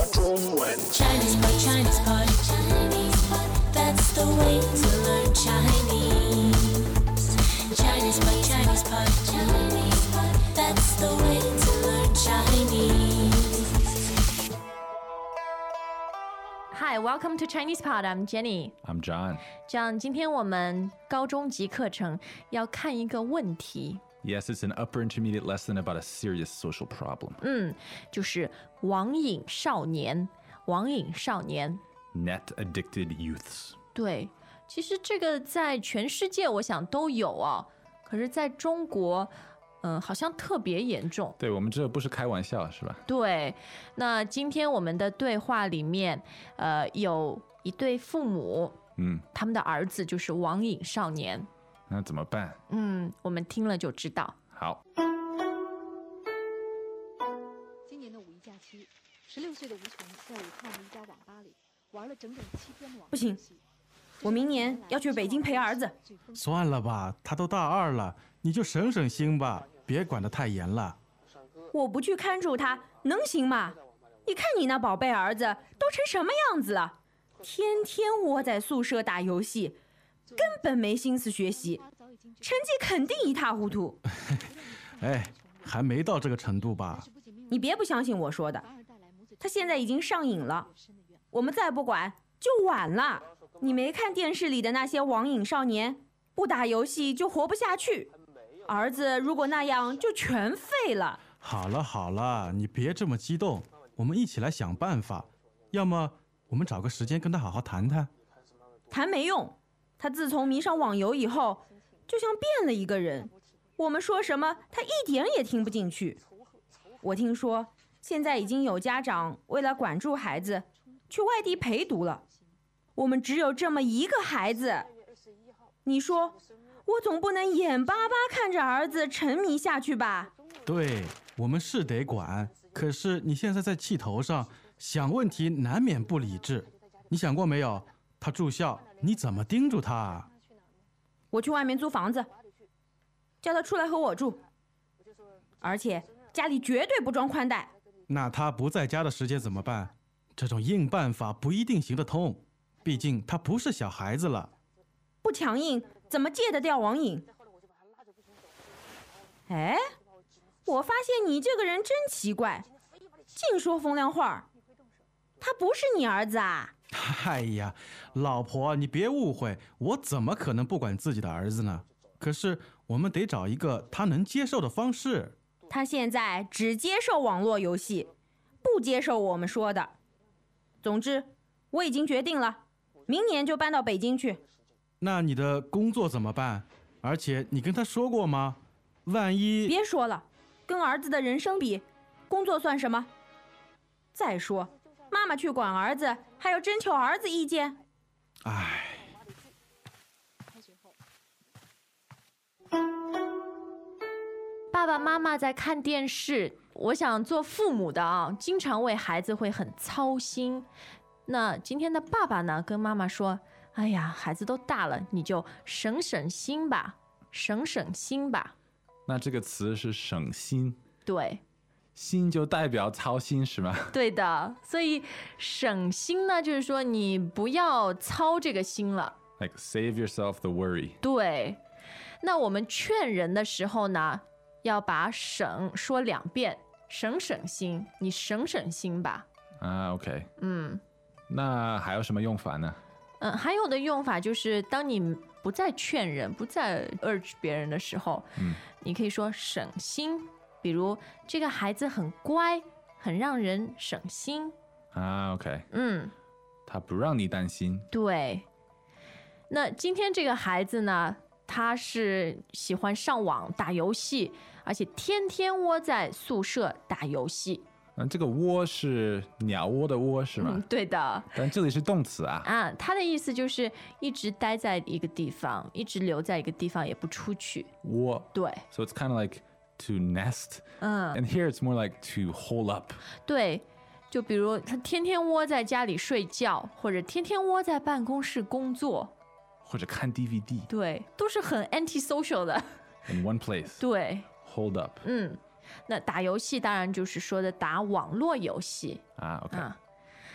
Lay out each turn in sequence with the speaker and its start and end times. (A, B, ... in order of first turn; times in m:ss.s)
0:00.8-0:07.0 A
0:07.6-0:13.7 A
0:16.7-0:18.8 B
0:18.8-0:19.5 C
0:19.7-0:24.0 B
0:24.2-0:27.4 C
0:27.4-0:31.8 B
0:32.1-0:33.8 C
0:34.0-0:41.4 B
0:41.4-0:43.0 C
0:43.1-0:48.8 B
0:49.0-0:49.3 C
0:49.3-0:51.5 B
0:51.9-0:52.6 C
0:52.7-0:54.4 B
0:54.5-0:54.8 C
0:57.9-1:03.1 D
1:03.1-1:03.4 E
1:04.2-1:06.0 E
1:06.3-1:11.0 F
1:11.7-1:19.8 E
1:20.4-1:21.8 E
1:22.4-1:24.0 E
1:24.2-1:24.5 F
1:25.0-1:27.1 F
1:27.5-1:28.7 E
1:29.4-1:30.7 E
1:31.3-1:38.1 E
1:38.7-1:41.2 E
1:41.4-1:48.1 F
1:48.9-1:56.2 E
1:57.0-2:02.2 E
2:03.0-2:04.9 E
2:05.8-2:10.3 E
2:10.7-2:20.3 F
2:21.3-2:22.3 E
2:23.4-2:24.4 E
2:25.6-2:27.7 E
2:28.1-2:34.5 F
2:35.2-2:37.3 E
2:39.5-2:39.8 E
2:40.7-2:42.7 E
2:43.3-2:44.5 E
2:45.4-2:46.7 E
2:46.9-2:55.4 F
2:55.7-2:58.1 E
2:58.6-2:59.9 E
3:00.8-3:04.4 E
3:05.0-3:09.7 F
3:09.6-3:13.1 E
3:14.1-3:17.8 E
3:18.4-3:19.2 F
3:24.7-3:30.7 B
3:31.3-3:38.5 B
3:39.1-3:40.8 C
3:41.0-3:41.4 B
3:42.0-3:44.0 C
3:43.9-3:49.2 B
3:49.4-3:51.0 C
3:51.0-3:51.6 B
3:52.2-3:59.3 B
3:59.6-4:00.3 C
4:00.4-4:00.8 B
4:01.3-4:02.8 C
4:03.2-4:14.6 B
4:08.4-4:08.6 C
4:14.9-4:15.7 C
4:15.7-4:16.1 B
4:16.7-4:17.9 C
4:17.9-4:18.5 B
4:19.5-4:27.6 B
4:28.0-4:30.6 C
4:30.4-4:31.4 B
4:31.4-4:32.5 C
4:32.4-4:37.7 B
4:37.8-4:43.0 C
4:38.3-4:38.6 B
4:40.8-4:41.2 B
4:43.2-4:49.1 B
4:49.6-4:50.7 C
4:50.7-4:52.7 B
4:53.1-4:53.8 C
4:53.8-4:54.3 B
4:54.4-4:55.0 C
4:55.0-4:59.8 B
4:59.2-4:59.7 C